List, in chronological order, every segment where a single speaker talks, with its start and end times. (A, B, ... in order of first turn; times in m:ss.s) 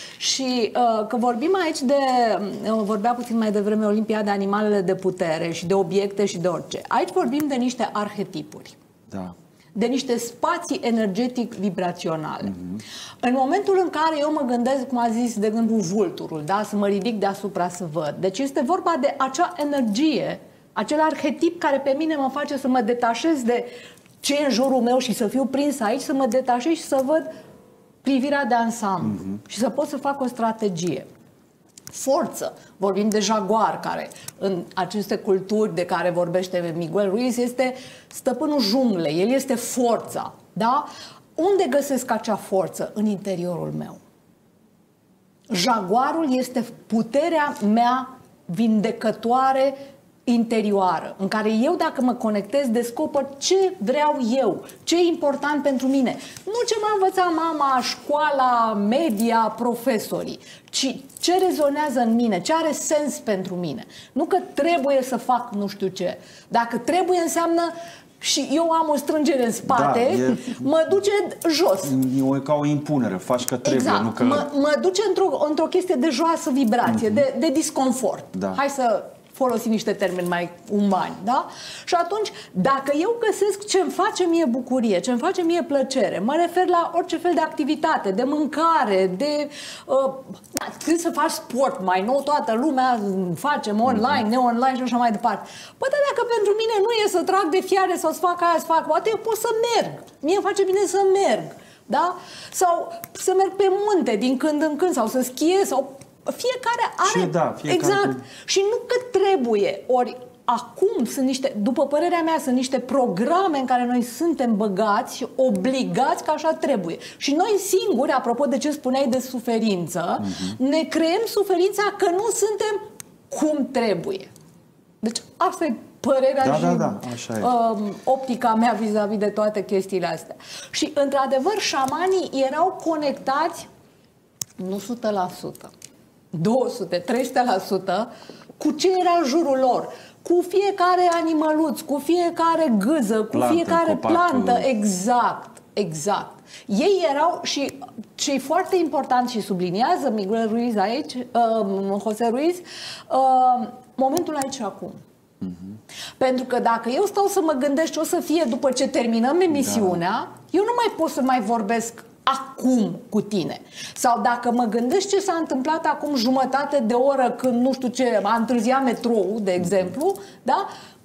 0:00.2-0:08.8 A
0:09.8-0:12.6 A
0:13.2-0:27.3 A
0:28.0-0:31.1 A
0:31.9-0:44.0 A
0:45.5-1:11.9 A
1:09.7-1:10.7 B
1:11.8-1:14.5 B
1:13.6-2:04.3 A
1:18.3-1:18.6 B
1:47.0-1:48.2 B
2:00.2-2:00.6 B
2:05.0-2:13.7 A
2:06.4-2:07.5 B
2:14.6-2:15.7 A
2:16.3-2:35.0 A
2:23.3-2:24.7 B
2:36.2-2:50.7 A